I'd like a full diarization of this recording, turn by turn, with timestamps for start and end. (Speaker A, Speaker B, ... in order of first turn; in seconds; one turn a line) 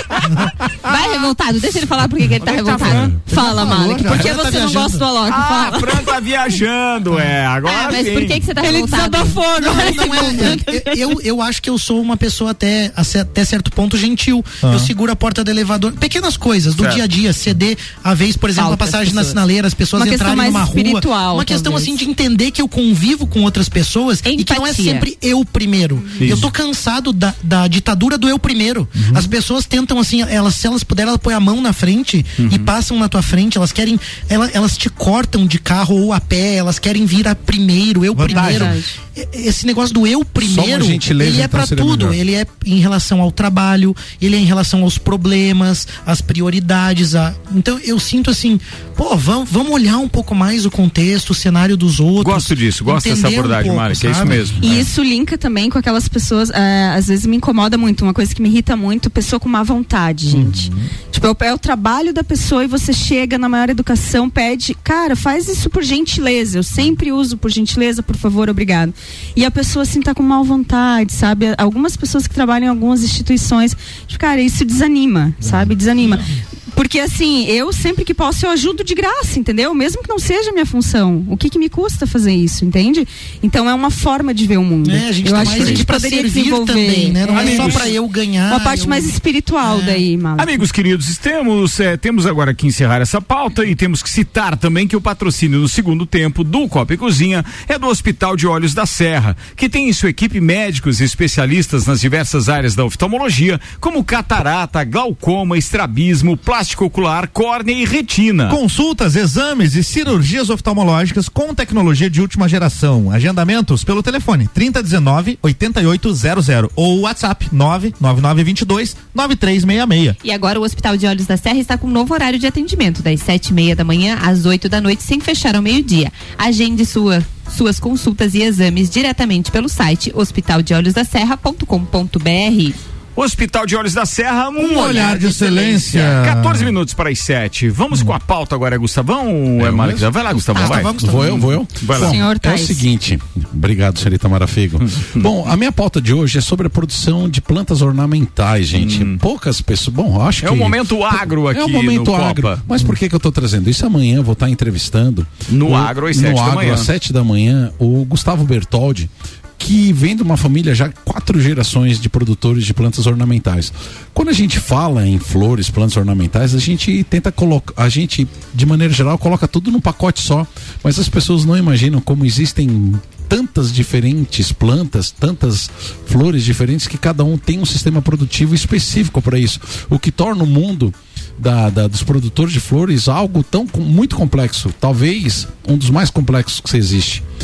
Speaker A: 0.8-3.1
Speaker B: 2.5-4.3
Speaker C: 2.6-3.0
Speaker D: 2.9-3.1
Speaker E: 3.2-6.1
Speaker F: 3.6-5.1
Speaker C: 5.2-8.4
Speaker A: 7.7-9.4
Speaker E: 8.6-11.0
Speaker F: 9.6-54.8
Speaker B: 14.6-14.9
Speaker C: 16.8-17.0
Speaker A: 18.6-19.3
Speaker E: 18.6-18.9
Speaker E: 19.9-22.0
Speaker A: 24.2-25.1
Speaker C: 26.2-26.5
Speaker B: 29.0-29.3
Speaker C: 32.4-32.7
Speaker B: 38.1-38.7
Speaker E: 38.3-38.9
Speaker D: 40.4-42.2
Speaker C: 52.2-54.9
Speaker E: 54.6-90.6
Speaker B: 60.3-60.8
Speaker F: 84.8-90.0
Speaker C: 85.3-85.8
Speaker C: 87.3-87.8
Speaker C: 90.4-108.6
Speaker B: 108.5-120.2
Speaker A: 120.2-132.8
Speaker C: 133.2-142.2
Speaker B: 134.6-136.7
Speaker D: 139.6-140.1
Speaker F: 140.5-141.4
Speaker D: 140.9-187.2
Speaker E: 141.9-142.9
Speaker C: 144.9-145.3
Speaker C: 148.7-149.2
Speaker C: 150.4-152.6
Speaker C: 155.5-156.9